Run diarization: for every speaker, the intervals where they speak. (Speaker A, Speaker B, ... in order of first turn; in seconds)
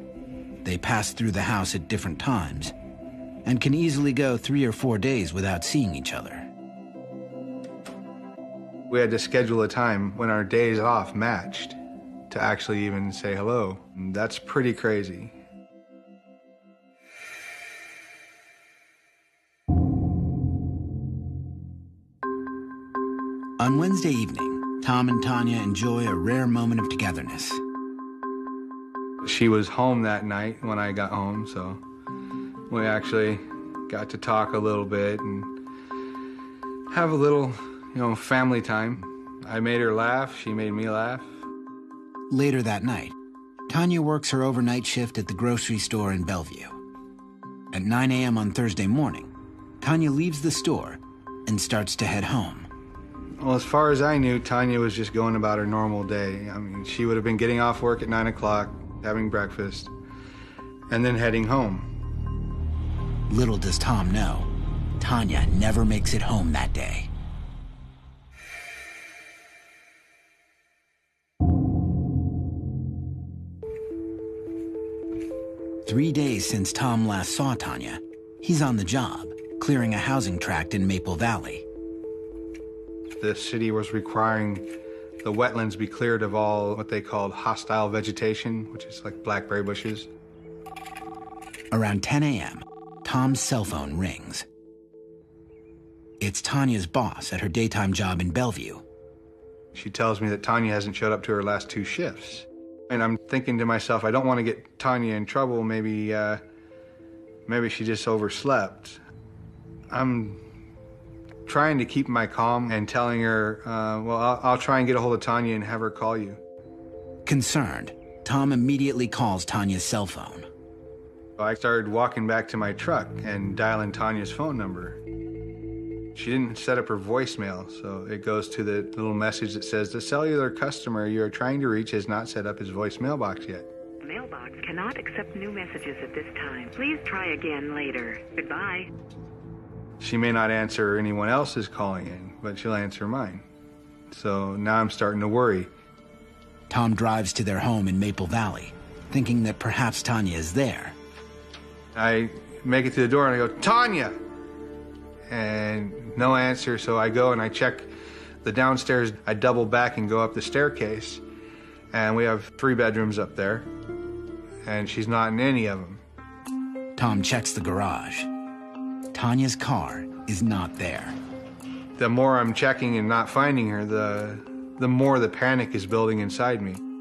Speaker A: 0.6-2.7, 3.4-6.5, 23.6-27.6, 42.3-43.1, 43.7-46.8, 47.7-49.3, 49.8-52.7, 63.3-64.5, 65.0-67.1, 75.8-81.7, 91.7-94.5, 96.2-98.8, 117.2-120.5, 146.7-150.9, 166.9-168.3, 169.1-171.2
Speaker B: 8.9-11.8, 12.3-15.3, 29.2-31.8, 32.7-35.5, 36.9-41.3, 53.4-59.9, 60.9-61.9, 83.2-84.7, 85.2-90.1, 99.7-106.4, 107.5-109.0, 109.9-110.4, 111.5-116.4, 121.4-125.0, 126.1-133.7, 140.0-143.4, 144.1-145.7, 151.9-154.2, 155.3-157.9, 158.4-161.2, 161.9-163.7, 164.6-166.0, 172.0-176.8
Speaker C: 134.0-138.9